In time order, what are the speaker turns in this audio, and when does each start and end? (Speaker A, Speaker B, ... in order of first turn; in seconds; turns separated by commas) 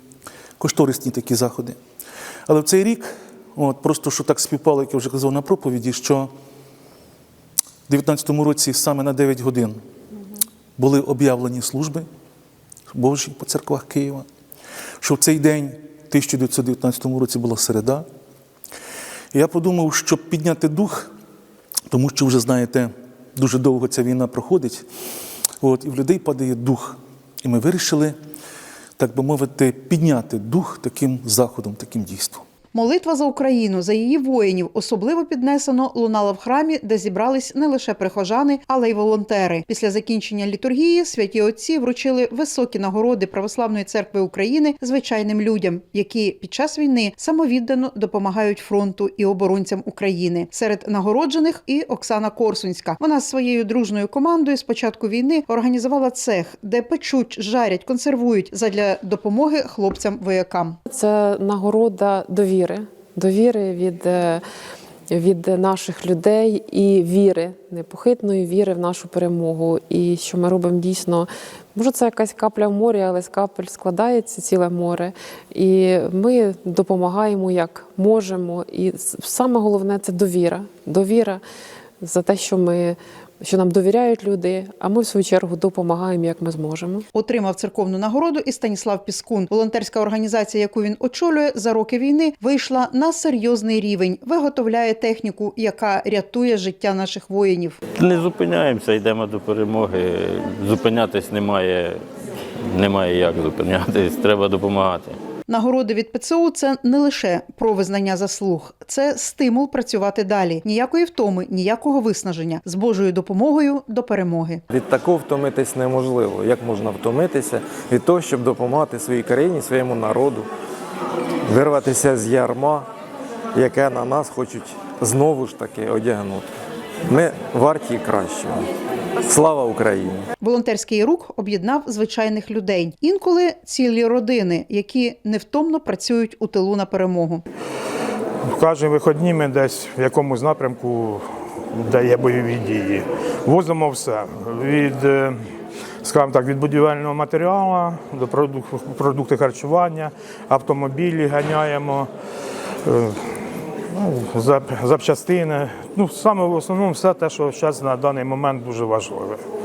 Speaker A: 0.6-1.8, Speaker A: 2.5-6.3, Speaker A: 7.9-9.8, Speaker A: 10.8-12.1, Speaker A: 12.9-14.2, Speaker A: 15.0-18.1, Speaker A: 19.3-21.1, Speaker A: 21.9-24.8, Speaker A: 25.6-28.1, Speaker A: 29.0-32.4, Speaker B: 32.7-60.8, Speaker C: 60.9-64.4, Speaker C: 65.1-81.4, Speaker C: 82.0-87.1, Speaker B: 87.1-97.8, Speaker D: 98.0-102.0, Speaker D: 102.7-105.2, Speaker B: 105.5-114.6, Speaker E: 114.7-120.5, Speaker E: 121.5-122.9, Speaker E: 123.5-126.5, Speaker E: 127.1-128.7, Speaker E: 129.3-130.3, Speaker B: 130.4-137.4, Speaker F: 138.5-145.3, Speaker F: 146.0-152.1, Speaker F: 152.9-153.1, Speaker F: 154.0-159.4